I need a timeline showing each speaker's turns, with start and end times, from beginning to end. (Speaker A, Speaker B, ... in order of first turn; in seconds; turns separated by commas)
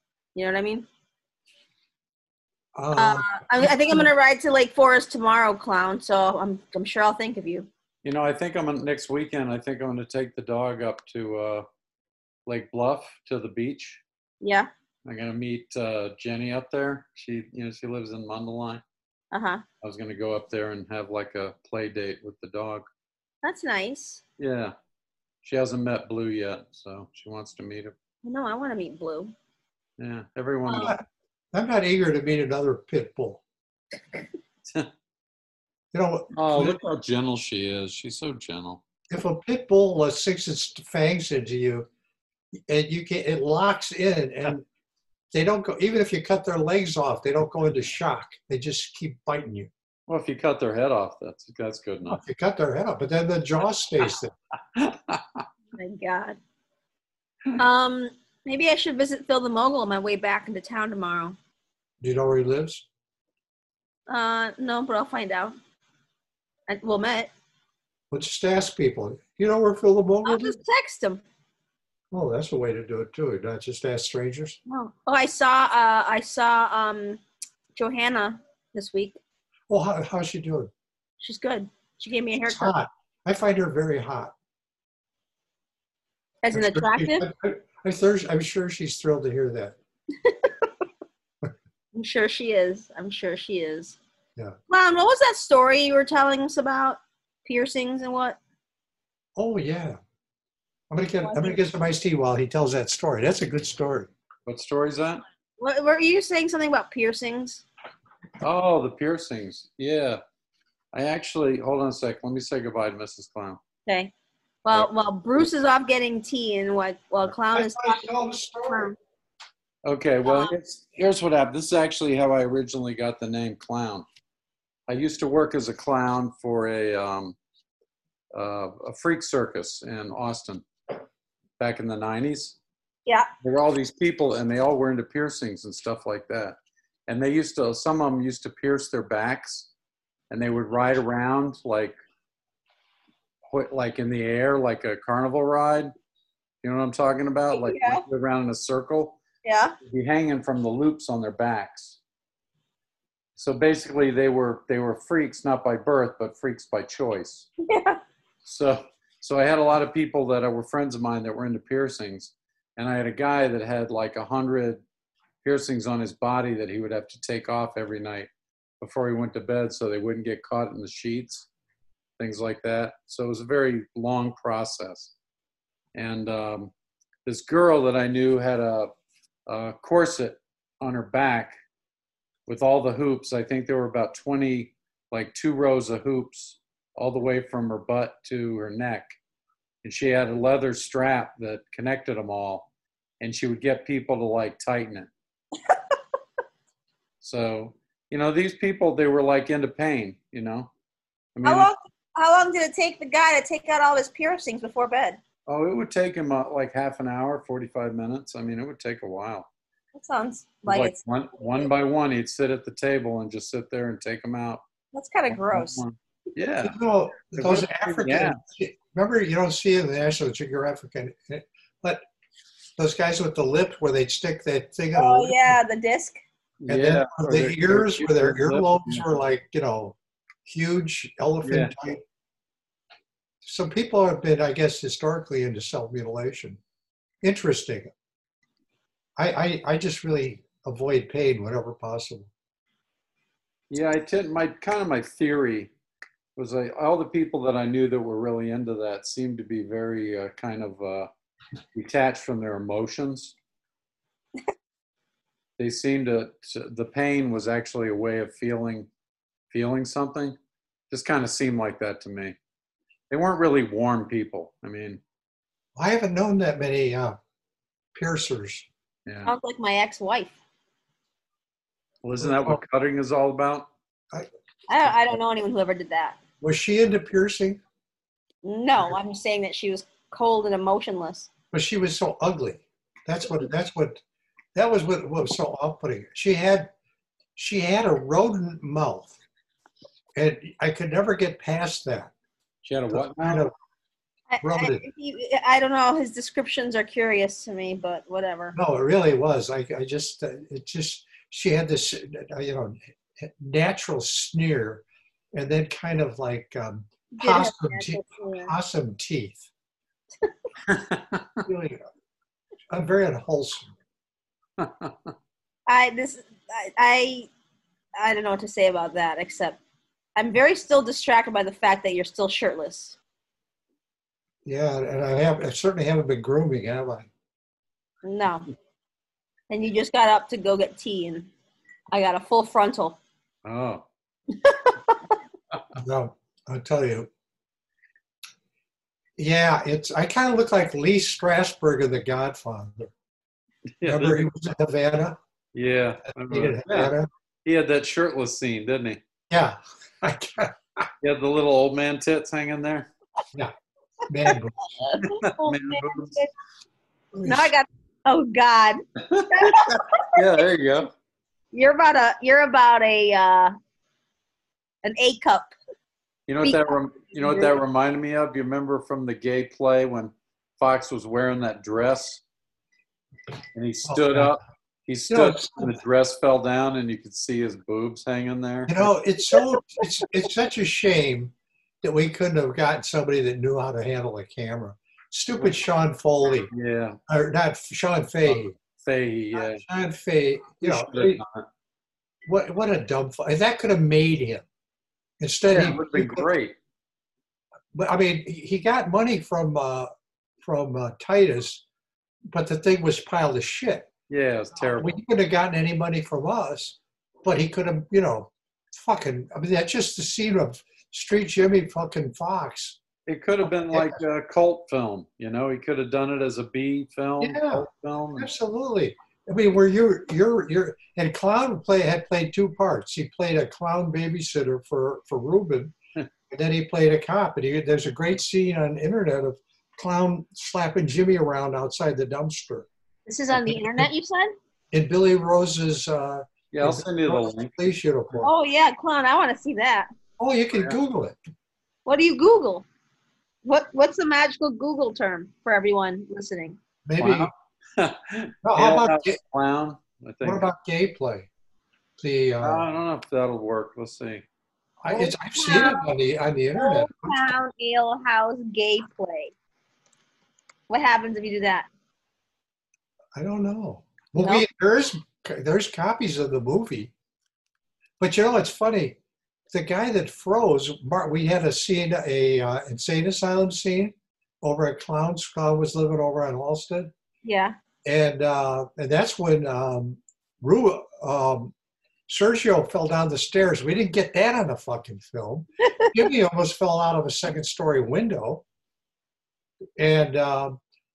Speaker A: 0.3-0.9, Speaker B: 2.7-4.1, Speaker A: 2.9-7.7, Speaker C: 8.0-11.6, Speaker C: 12.5-14.0, Speaker A: 14.4-14.7, Speaker C: 15.0-18.8, Speaker A: 19.3-19.6, Speaker C: 19.8-22.9, Speaker A: 23.4-24.2, Speaker C: 24.4-24.7, Speaker C: 25.4-27.9, Speaker A: 28.2-29.3, Speaker C: 30.0-30.9, Speaker A: 30.7-30.9, Speaker B: 30.7-33.4, Speaker B: 35.9-36.8, Speaker C: 36.3-38.8, Speaker B: 39.1-41.9, Speaker B: 42.7-44.6, Speaker B: 45.3-49.7, Speaker C: 50.1-52.2, Speaker B: 52.1-54.3, Speaker C: 54.7-55.4, Speaker A: 55.7-56.4, Speaker A: 57.6-61.4, Speaker B: 62.0-62.8, Speaker A: 64.1-65.5, Speaker A: 66.7-67.3, Speaker B: 68.1-70.6, Speaker A: 70.2-71.2, Speaker B: 72.1-74.6, Speaker A: 74.7-77.2, Speaker A: 77.7-79.2, Speaker B: 79.7-80.7, Speaker A: 81.2-82.7, Speaker B: 82.4-84.3, Speaker A: 86.4-87.2, Speaker B: 86.5-89.8, Speaker A: 90.2-90.5, Speaker A: 91.9-94.0, Speaker A: 94.7-98.4, Speaker B: 99.3-100.0, Speaker B: 100.9-104.1, Speaker A: 101.2-101.6, Speaker C: 104.5-105.2, Speaker A: 105.6-107.6, Speaker C: 108.4-110.2, Speaker C: 110.9-113.6, Speaker A: 113.9-114.1, Speaker A: 114.6-118.1, Speaker B: 117.5-118.9, Speaker A: 118.7-119.0, Speaker C: 119.8-124.0, Speaker A: 120.2-120.5, Speaker C: 124.9-127.3, Speaker C: 128.3-130.7, Speaker C: 131.6-132.6, Speaker C: 133.4-136.6, Speaker C: 137.1-139.7, Speaker C: 140.3-141.9, Speaker C: 143.5-145.9, Speaker C: 146.6-149.2, Speaker A: 147.5-148.0, Speaker A: 149.4-149.7, Speaker C: 149.8-152.0, Speaker C: 153.4-157.5, Speaker A: 157.7-158.0, Speaker C: 158.4-164.8, Speaker C: 165.4-168.3, Speaker C: 168.8-171.5, Speaker C: 172.2-175.1, Speaker C: 175.9-176.7, Speaker C: 177.2-178.9, Speaker C: 179.5-181.5, Speaker C: 182.5-189.1, Speaker C: 189.8-192.7, Speaker C: 193.2-195.1, Speaker C: 197.2-200.7, Speaker C: 201.3-201.7, Speaker A: 201.4-205.2, Speaker C: 205.5-209.5, Speaker A: 209.9-211.0, Speaker C: 210.7-214.6, Speaker A: 214.9-215.8, Speaker C: 215.3-216.8, Speaker B: 216.6-222.0, Speaker C: 217.3-218.4, Speaker B: 222.8-225.6, Speaker A: 224.9-226.2, Speaker C: 226.6-229.1, Speaker B: 226.7-232.0, Speaker C: 231.4-231.7, Speaker B: 233.4-236.6, Speaker B: 237.2-237.9, Speaker B: 239.2-242.3, Speaker C: 243.7-245.7, Speaker C: 246.3-251.1, Speaker C: 251.7-253.3, Speaker C: 255.6-258.9, Speaker C: 259.5-260.4, Speaker C: 260.9-262.4, Speaker C: 263.1-265.0, Speaker B: 265.8-267.2, Speaker B: 267.9-268.7, Speaker C: 269.1-269.3, Speaker A: 269.2-270.4, Speaker C: 272.0-273.7, Speaker B: 272.2-272.6, Speaker A: 274.7-276.2, Speaker B: 276.4-277.6, Speaker A: 278.4-281.3, Speaker B: 281.5-284.0, Speaker B: 284.5-286.7, Speaker B: 287.4-289.1, Speaker B: 290.1-292.1, Speaker C: 292.6-293.5, Speaker B: 292.9-293.5, Speaker A: 294.3-298.6, Speaker B: 294.4-294.9, Speaker B: 298.5-309.4, Speaker A: 307.1-308.5, Speaker C: 310.7-311.4, Speaker B: 311.4-311.8, Speaker B: 312.7-313.7, Speaker C: 314.6-314.9, Speaker A: 315.7-317.3, Speaker A: 318.0-319.6, Speaker A: 320.1-323.0, Speaker B: 324.4-327.1, Speaker A: 328.0-328.5, Speaker A: 329.5-331.3, Speaker A: 331.9-333.0, Speaker C: 333.4-333.8, Speaker A: 334.3-335.1, Speaker B: 335.7-337.1, Speaker B: 339.2-342.9, Speaker C: 343.8-344.3, Speaker B: 343.8-345.2, Speaker C: 345.5-349.0, Speaker B: 346.2-347.1, Speaker B: 349.3-350.9, Speaker C: 351.0-352.9, Speaker B: 354.1-354.6, Speaker A: 354.8-356.3, Speaker C: 355.0-356.2, Speaker B: 357.1-357.5, Speaker A: 357.2-360.1, Speaker C: 359.1-360.9, Speaker A: 361.5-363.5, Speaker A: 364.8-365.5, Speaker C: 366.3-372.2, Speaker A: 366.4-367.6, Speaker C: 373.5-378.9, Speaker B: 373.8-374.4, Speaker B: 375.1-375.8, Speaker B: 378.7-386.5, Speaker C: 386.5-387.0, Speaker B: 387.1-388.5, Speaker C: 388.3-389.6, Speaker B: 389.4-391.2, Speaker C: 390.6-391.4, Speaker B: 392.2-394.4, Speaker B: 395.2-396.3, Speaker C: 395.5-396.5, Speaker B: 397.7-399.9, Speaker B: 400.4-401.6, Speaker B: 402.3-403.9, Speaker C: 404.1-405.0, Speaker B: 404.7-412.8, Speaker C: 413.1-418.3, Speaker B: 413.4-414.0, Speaker B: 417.2-417.6, Speaker B: 418.2-425.7, Speaker B: 426.3-432.7, Speaker A: 433.1-434.3, Speaker B: 433.3-433.9, Speaker B: 434.7-438.3, Speaker C: 436.5-437.6, Speaker A: 438.2-439.9, Speaker B: 440.2-441.2, Speaker A: 441.9-442.6, Speaker A: 443.4-446.6, Speaker B: 446.8-447.3, Speaker C: 447.0-450.5, Speaker B: 448.4-449.2, Speaker B: 450.2-451.3, Speaker B: 452.0-452.7, Speaker C: 452.4-454.2, Speaker B: 454.8-457.3, Speaker A: 454.9-455.9, Speaker A: 456.5-459.3, Speaker A: 460.7-461.7, Speaker B: 463.1-466.9, Speaker A: 464.2-464.4, Speaker B: 468.0-469.0, Speaker B: 469.5-476.9, Speaker A: 477.2-477.5, Speaker B: 477.8-481.5, Speaker B: 482.1-488.4, Speaker B: 489.8-490.6